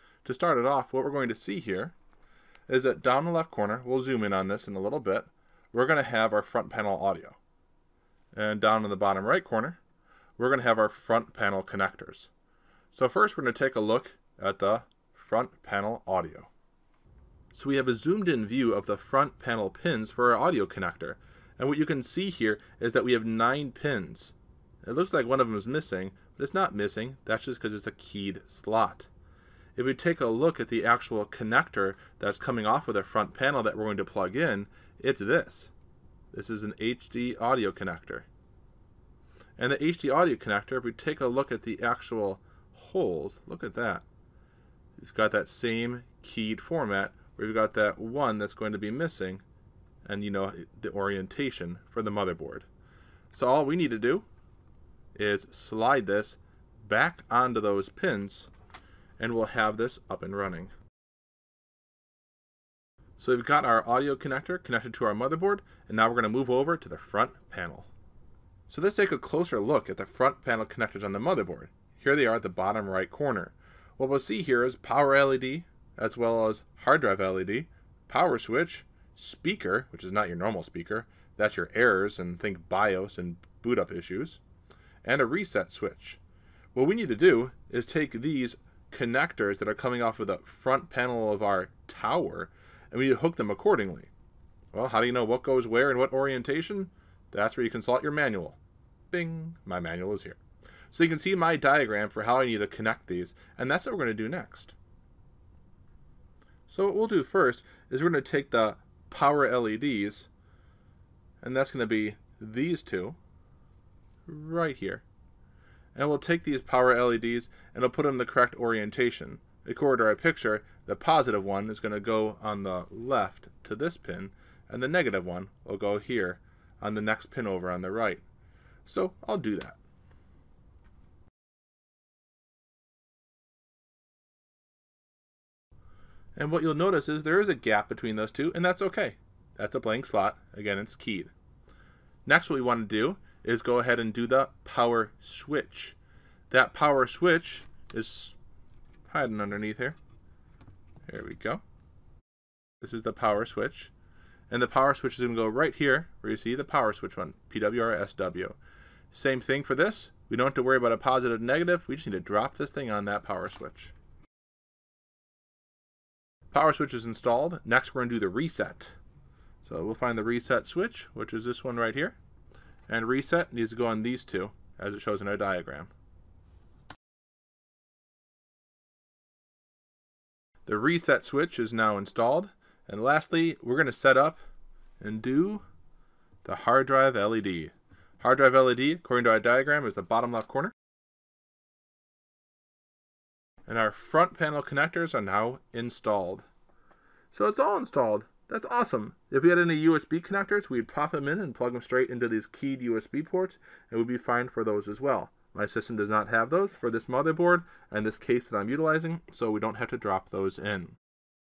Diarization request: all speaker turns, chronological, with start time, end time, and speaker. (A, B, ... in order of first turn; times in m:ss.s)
0:00.2-0:02.0 A
0:02.7-0:07.4 A
0:08.3-0:09.8 A
0:10.4-0:12.3 A
0:12.9-0:16.5 A
0:17.5-0:29.1 A
0:29.8-0:35.7 A
0:36.3-0:38.3 A
0:39.6-0:44.0 A
0:45.0-0:49.4 A
0:50.0-0:52.7 A
0:53.3-0:54.3 A
0:55.2-0:58.5 A
0:59.2-1:00.7 A
1:03.2-1:07.9 A
1:08.7-1:24.4 A
1:25.0-1:26.2 A
1:26.7-1:34.1 A
1:34.7-1:38.6 A
1:39.1-1:40.4 A
1:40.9-1:44.8 A
1:46.7-1:50.3 A
1:51.4-1:53.2 A
1:54.3-1:55.0 A
1:56.0-2:08.2 A
2:08.9-2:09.8 A
2:16.4-2:21.3 A
2:22.3-2:26.0 A
2:26.5-2:28.4 A
2:29.1-2:30.0 A
2:31.1-2:31.6 A
2:32.8-2:33.9 A
2:34.5-2:38.6 A
2:39.1-2:43.9 A
2:46.5-2:49.0 A
2:49.6-2:52.2 A
2:52.9-2:55.9 A
3:00.7-3:04.4 A
3:05.0-3:05.6 A
3:06.4-3:10.7 A
3:13.7-3:16.5 A
3:17.3-3:31.0 A